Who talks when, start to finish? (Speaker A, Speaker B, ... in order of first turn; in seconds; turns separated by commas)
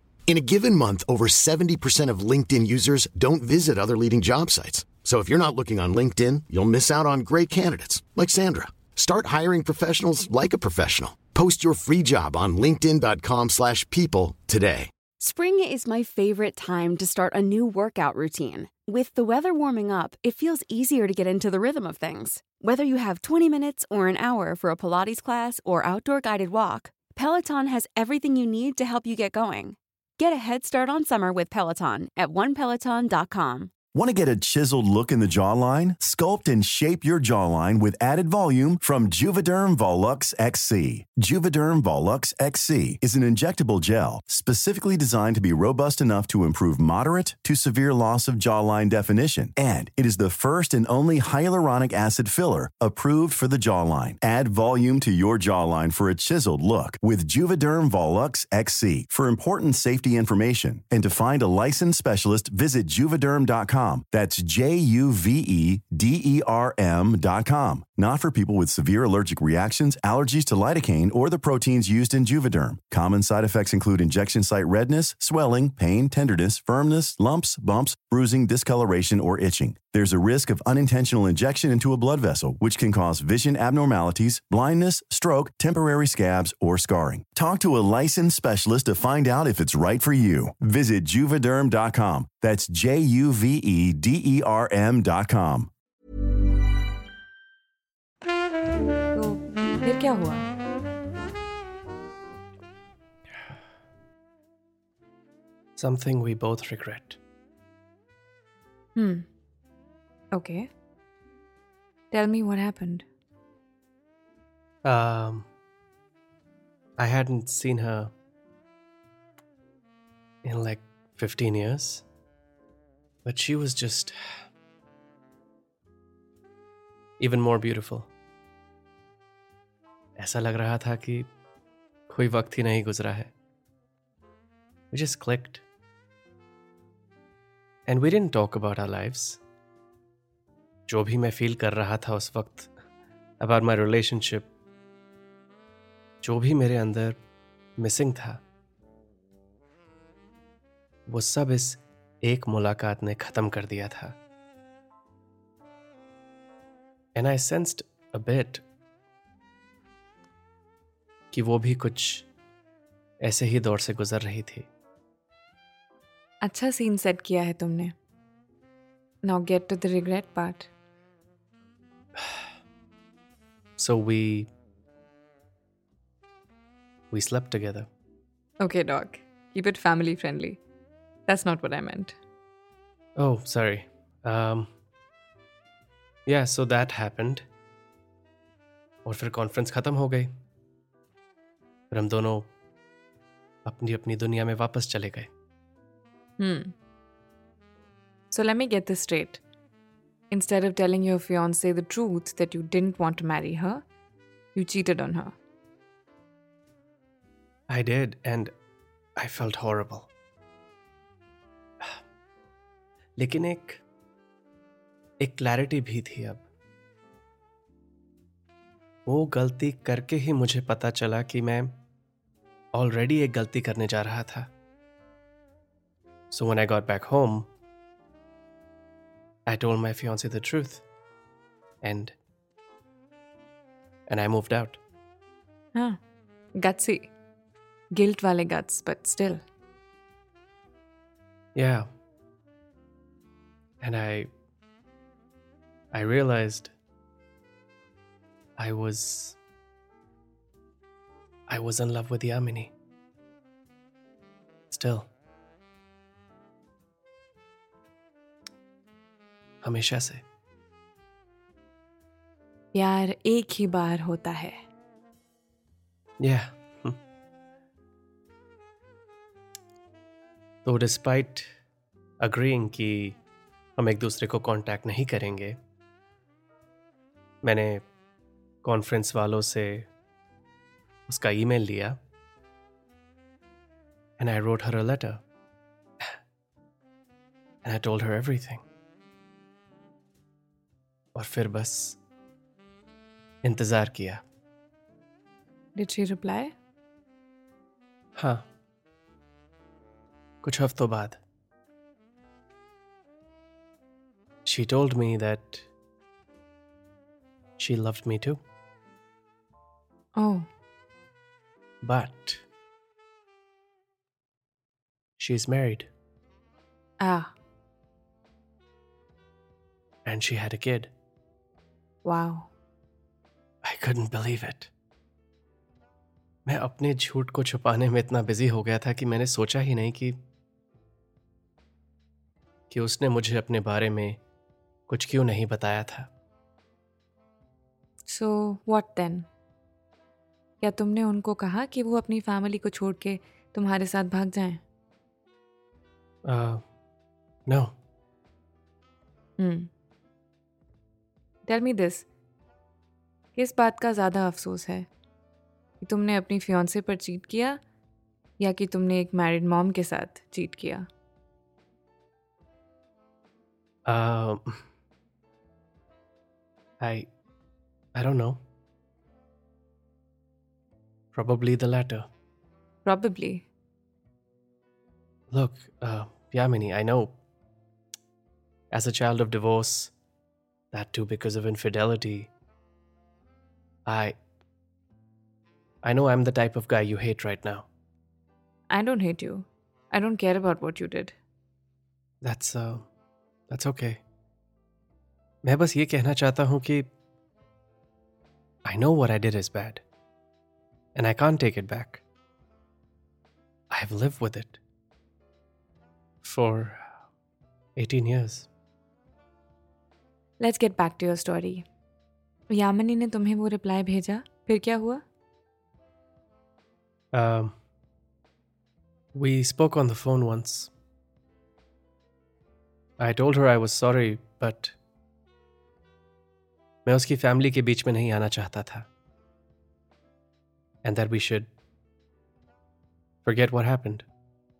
Speaker A: 0.3-14.9, Speaker B: 15.2-33.7, Speaker C: 33.9-95.7, Speaker D: 99.1-100.5, Speaker E: 105.8-107.2, Speaker D: 109.0-109.3, Speaker D: 110.3-110.7, Speaker D: 112.1-113.0, Speaker E: 114.8-115.5, Speaker E: 117.0-118.1, Speaker E: 120.4-122.0, Speaker E: 123.2-124.2, Speaker E: 127.2-128.1, Speaker E: 130.2-131.3, Speaker E: 132.1-133.3, Speaker E: 134.9-135.6, Speaker E: 137.9-139.4, Speaker E: 140.9-142.7, Speaker E: 143.4-144.5, Speaker E: 146.2-147.2, Speaker E: 147.8-148.4, Speaker E: 151.1-154.2, Speaker E: 157.2-158.6, Speaker E: 161.3-162.3, Speaker E: 163.2-164.7, Speaker D: 166.4-167.9, Speaker D: 169.2-170.7, Speaker E: 173.8-174.5, Speaker E: 177.1-177.9, Speaker D: 178.6-180.6, Speaker D: 181.3-182.2, Speaker E: 183.2-184.7, Speaker E: 186.3-187.5, Speaker E: 189.1-190.3, Speaker E: 191.9-192.5, Speaker E: 193.7-195.3, Speaker D: 196.4-196.7, Speaker D: 198.3-199.4, Speaker D: 200.3-203.8, Speaker D: 204.6-205.3, Speaker E: 207.7-208.5, Speaker E: 209.2-210.1, Speaker E: 213.2-213.8, Speaker E: 215.2-216.4, Speaker E: 219.1-221.8, Speaker E: 222.7-224.5, Speaker E: 226.3-227.5, Speaker E: 229.5-230.8, Speaker E: 231.8-232.2, Speaker E: 234.1-234.8, Speaker D: 235.7-236.0, Speaker D: 236.6-237.1, Speaker D: 237.9-239.4, Speaker E: 241.6-241.9, Speaker E: 243.8-244.3, Speaker E: 245.9-246.7, Speaker E: 248.6-249.4, Speaker E: 251.5-252.7, Speaker E: 254.7-255.1, Speaker E: 259.6-260.2, Speaker D: 262.7-264.6, Speaker E: 266.2-267.0, Speaker E: 270.6-271.5, Speaker E: 272.2-273.2, Speaker E: 273.8-275.6, Speaker E: 277.4-277.8, Speaker E: 278.6-279.9, Speaker E: 281.1-282.0, Speaker E: 284.2-285.2, Speaker E: 287.6-288.6, Speaker E: 291.1-292.0, Speaker E: 293.4-294.2, Speaker D: 295.8-296.5, Speaker E: 298.2-298.4, Speaker E: 300.4-301.2, Speaker E: 304.5-305.7, Speaker E: 307.6-308.4, Speaker D: 310.1-310.5, Speaker E: 311.8-312.4, Speaker E: 315.2-315.9, Speaker D: 317.0-317.3, Speaker E: 320.1-320.9, Speaker D: 322.0-322.5, Speaker E: 323.6-324.7, Speaker E: 326.5-330.2, Speaker E: 332.7-334.2, Speaker E: 334.9-336.1, Speaker D: 338.1-339.3, Speaker D: 340.6-344.6, Speaker E: 346.2-346.6, Speaker E: 347.5-347.7, Speaker D: 349.4-349.7, Speaker D: 351.5-352.1, Speaker D: 353.4-354.9, Speaker D: 355.8-357.6, Speaker D: 358.4-360.9, Speaker E: 363.9-364.6, Speaker E: 366.8-367.1, Speaker E: 367.9-368.4, Speaker E: 371.1-372.1, Speaker D: 372.9-373.5, Speaker E: 375.3-377.2, Speaker E: 378.7-379.9, Speaker E: 380.7-382.3, Speaker E: 383.9-384.1, Speaker E: 385.8-387.7, Speaker D: 388.7-391.1, Speaker E: 392.2-392.9, Speaker E: 393.5-394.0, Speaker E: 395.4-396.9, Speaker E: 398.7-399.8, Speaker E: 400.9-402.0, Speaker E: 403.7-404.6, Speaker E: 406.2-406.9, Speaker E: 407.8-408.5, Speaker D: 410.4-411.7, Speaker D: 412.5-415.0, Speaker E: 417.1-417.5, Speaker E: 419.1-420.7, Speaker E: 423.0-424.8, Speaker E: 426.9-428.9, Speaker E: 430.8-431.5, Speaker E: 433.2-434.1